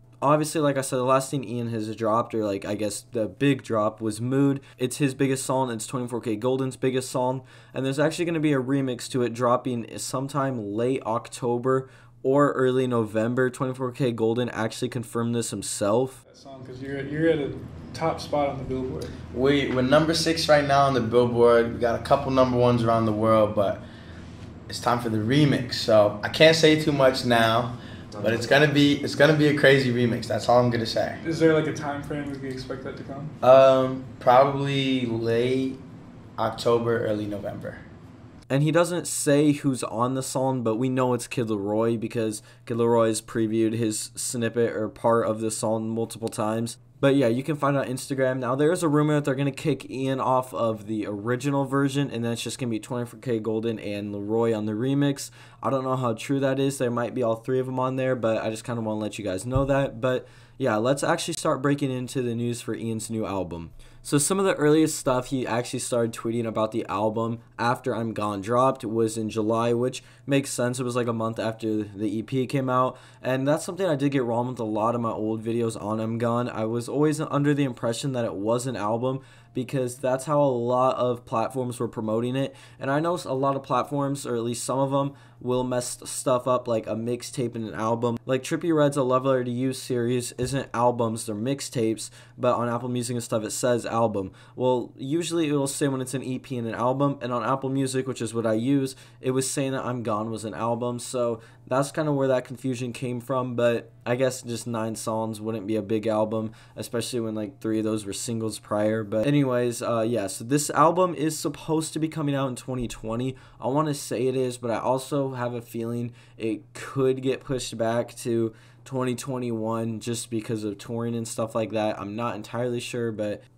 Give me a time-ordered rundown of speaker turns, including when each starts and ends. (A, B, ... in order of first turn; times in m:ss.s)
0:00.2-0:16.2 A
0:16.3-0:19.1 B
0:19.3-0:23.8 C
0:24.7-0:31.2 C
0:31.2-0:33.3 B
0:33.4-0:35.8 C
0:36.4-0:37.8 C
0:38.5-2:03.4 A